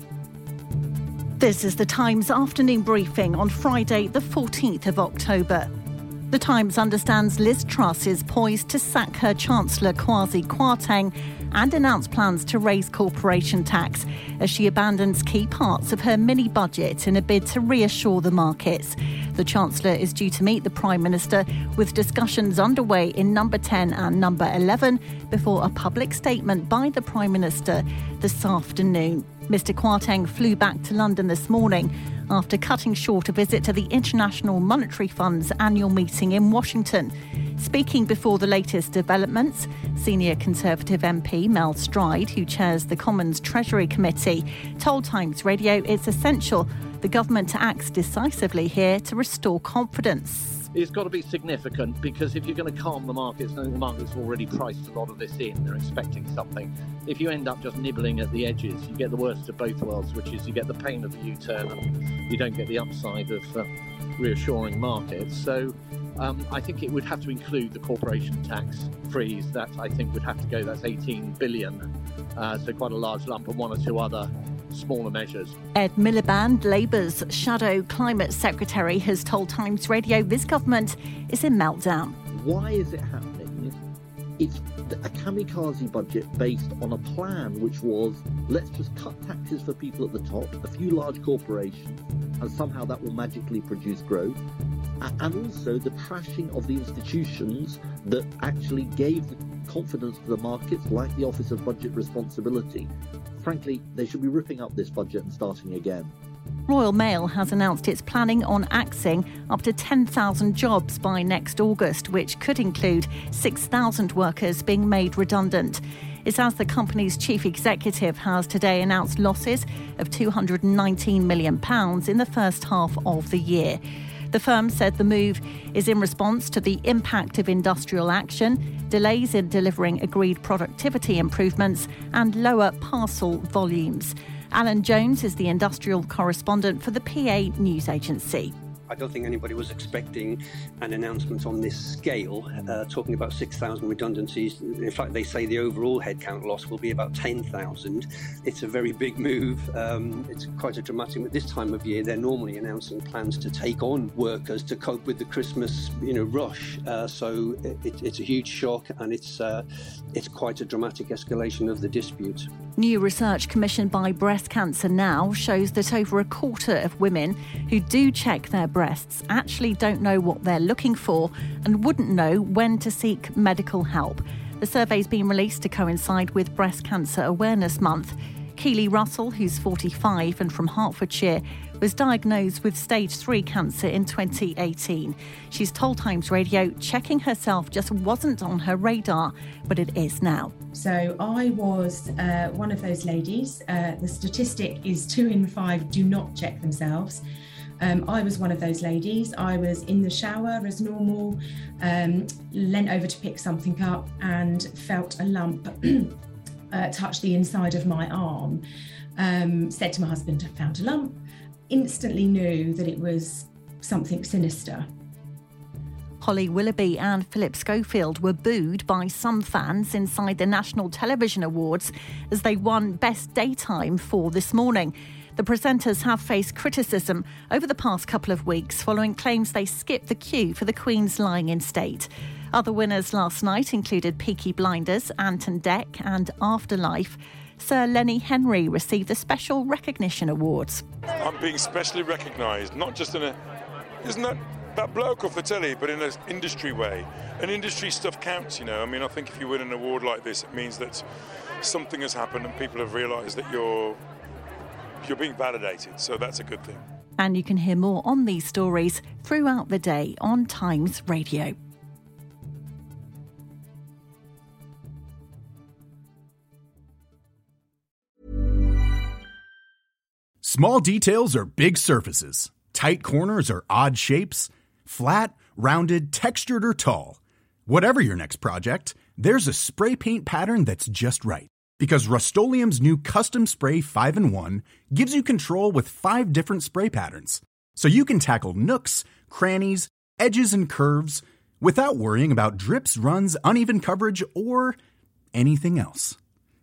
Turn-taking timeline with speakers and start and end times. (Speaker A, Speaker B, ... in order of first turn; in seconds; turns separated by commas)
Speaker A: 1.4-5.7, Speaker A: 6.3-50.7, Speaker B: 50.7-63.7, Speaker B: 64.2-71.8, Speaker B: 72.4-75.5, Speaker A: 75.8-82.2, Speaker C: 82.3-83.8, Speaker C: 84.4-94.4, Speaker C: 95.0-106.1, Speaker A: 106.7-123.8, Speaker A: 124.3-138.5, Speaker D: 138.9-159.6, Speaker D: 160.2-162.5, Speaker A: 162.8-190.5, Speaker E: 190.7-197.2, Speaker E: 197.8-206.2, Speaker E: 206.7-208.6, Speaker E: 209.2-211.2, Speaker E: 211.7-214.9, Speaker A: 216.2-240.8, Speaker F: 241.2-243.4, Speaker F: 244.0-251.1, Speaker F: 251.6-254.0, Speaker F: 255.0-256.8, Speaker A: 257.2-261.5, Speaker G: 270.4-294.8, Speaker G: 295.4-296.2